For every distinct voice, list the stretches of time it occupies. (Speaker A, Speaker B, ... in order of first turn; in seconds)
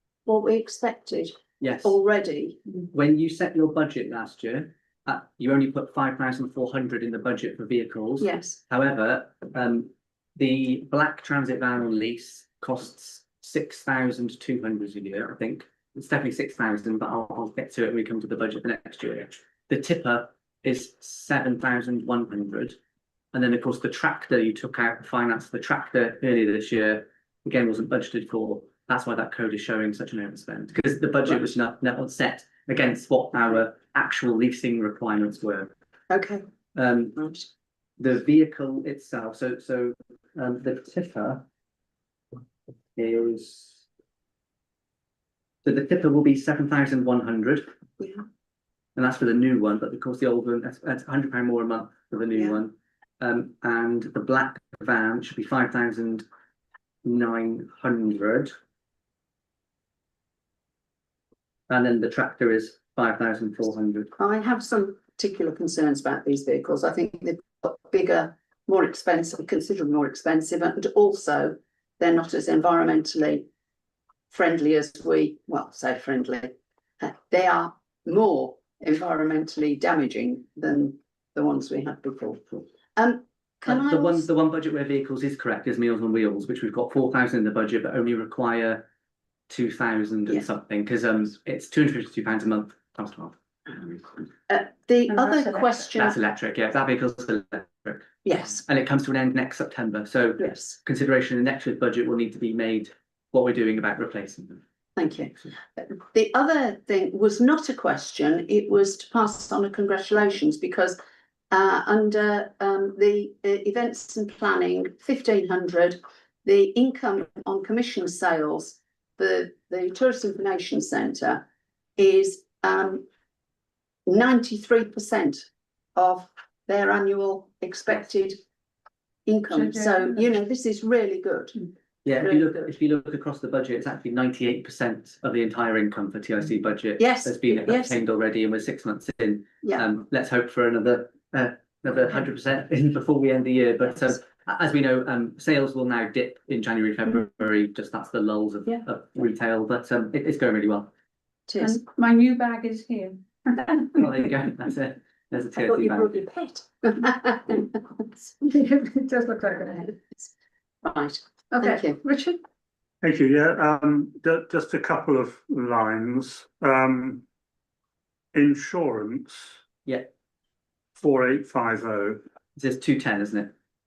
Speaker A: 0.3-2.6, 8.2-8.6, 36.1-36.5, 37.2-37.5, 48.0-48.2, 64.2-73.5, 74.3-84.3, 94.5-96.2, 98.2-98.6, 100.4-100.8, 105.0-111.0, 111.5-121.5, 122.0-123.1, 124.1-128.4, 129.3-132.7, 137.0-138.0, 151.5-151.8, 155.6-158.2, 160.8-162.0
Speaker B: 1.6-2.0, 2.9-22.8, 23.3-35.7, 36.8-37.2, 38.0-41.5, 43.0-43.9, 45.6-47.7, 49.0-56.3, 57.0-58.5, 61.7-64.1, 83.7-88.8, 89.5-94.2, 96.0-104.6, 132.1-150.9, 153.9-156.1, 172.6-173.5
Speaker C: 95.1-95.6, 129.5-130.1, 151.6-154.0, 158.4-159.9, 161.6-162.4
Speaker D: 163.0-167.2, 168.3-169.6, 171.0-172.2